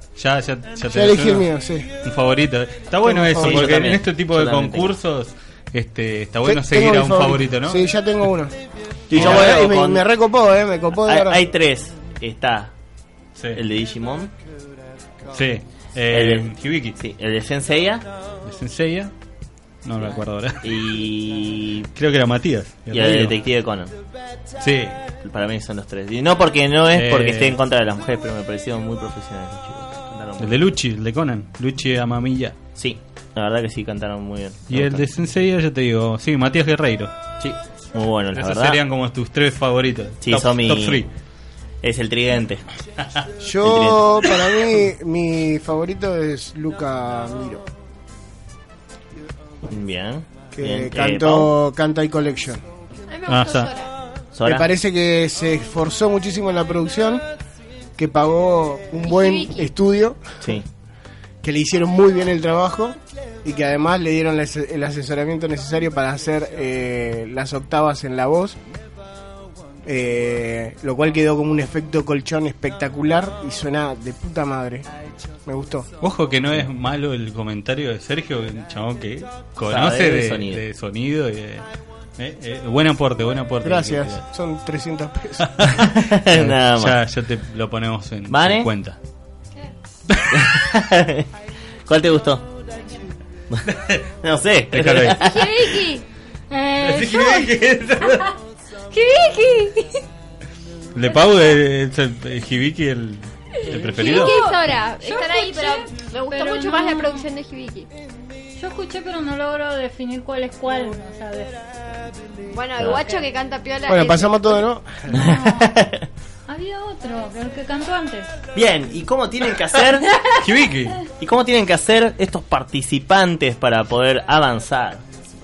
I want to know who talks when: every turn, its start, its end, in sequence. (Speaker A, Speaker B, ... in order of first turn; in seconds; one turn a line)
Speaker A: 0.1-1.5
Speaker B: 0.9-1.9
Speaker A: 2.0-7.9
Speaker B: 3.0-3.6
Speaker C: 3.4-4.9
Speaker B: 6.4-8.5
Speaker C: 9.1-10.0
Speaker B: 9.1-11.4
Speaker A: 9.2-9.5
Speaker C: 11.1-12.7
Speaker C: 13.5-14.3
Speaker A: 15.3-16.9
Speaker C: 16.1-18.0
Speaker A: 18.4-19.1
Speaker A: 19.8-20.6
Speaker C: 20.6-21.9
Speaker A: 21.9-23.4
Speaker C: 22.9-23.9
Speaker A: 24.6-24.9
Speaker C: 25.2-30.5
Speaker A: 26.9-27.6
Speaker A: 30.4-32.5
Speaker C: 32.8-35.0
Speaker A: 34.7-37.1
Speaker C: 37.4-38.8
Speaker A: 38.3-41.1
Speaker C: 40.2-41.0
Speaker C: 41.8-42.6
Speaker B: 43.4-47.6
Speaker C: 43.6-44.0
Speaker C: 49.7-51.5
Speaker B: 50.5-52.6
Speaker D: 53.1-53.9
Speaker A: 53.3-53.7
Speaker C: 54.3-54.6
Speaker B: 54.5-57.2
Speaker B: 58.0-60.2
Speaker D: 59.0-59.7
Speaker B: 61.4-68.6
Speaker B: 69.8-74.8
Speaker B: 75.5-75.9
Speaker A: 76.0-81.7
Speaker C: 79.7-80.6
Speaker A: 82.2-84.2
Speaker B: 83.6-85.5
Speaker A: 85.5-85.8
Speaker C: 86.0-87.0
Speaker A: 86.3-89.0
Speaker C: 88.3-88.7
Speaker C: 90.3-91.2
Speaker C: 91.8-92.4
Speaker C: 94.2-95.3
Speaker A: 94.7-95.2
Speaker D: 95.3-96.0
Speaker E: 96.5-97.5
Speaker A: 96.8-98.2
Speaker D: 98.9-99.8
Speaker A: 100.9-104.4
Speaker D: 103.7-107.9
Speaker E: 103.9-107.2
Speaker E: 108.6-111.6
Speaker D: 112.5-114.6
Speaker C: 112.8-113.1
Speaker B: 113.9-114.9
Speaker E: 115.1-115.6
Speaker C: 115.2-116.0
Speaker E: 116.5-118.3
Speaker C: 118.5-120.0
Speaker A: 120.4-121.0
Speaker C: 121.2-125.0